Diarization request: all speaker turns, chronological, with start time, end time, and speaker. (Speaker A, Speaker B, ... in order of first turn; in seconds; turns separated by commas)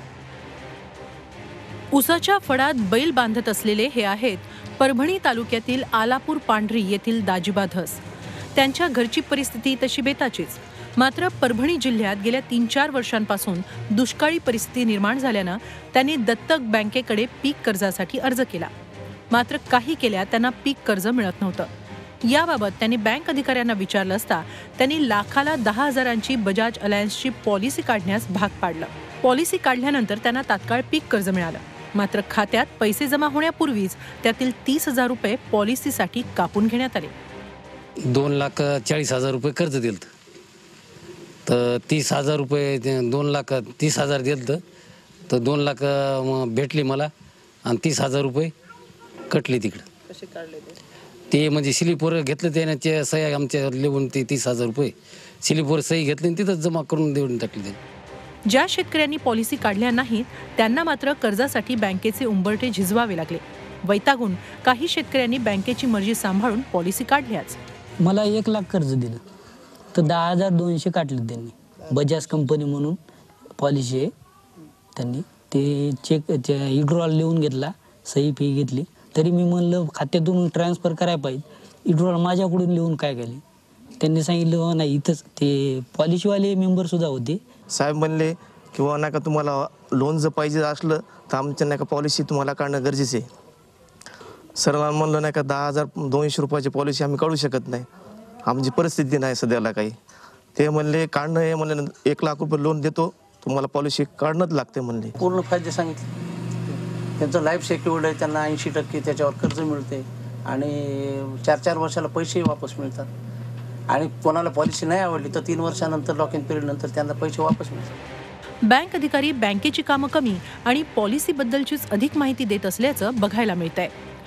Speaker A: 1.9-8.0, Speaker A: 8.6-18.7, Speaker A: 19.3-21.7, Speaker A: 22.3-37.1, Speaker B: 38.1-40.1, Speaker B: 41.5-44.6, Speaker B: 45.3-47.1, Speaker B: 47.6-48.5, Speaker B: 49.3-49.9, Speaker B: 51.3-57.8, Speaker A: 58.5-67.6, Speaker C: 68.0-69.2, Speaker C: 69.9-73.0, Speaker C: 73.6-74.1, Speaker C: 75.0-83.4, Speaker C: 84.0-87.4, Speaker D: 87.7-93.3, Speaker D: 94.6-97.9, Speaker D: 98.5-100.0, Speaker D: 100.5-105.1, Speaker E: 105.2-106.1, Speaker E: 106.7-113.1, Speaker E: 113.9-118.0, Speaker A: 118.7-123.9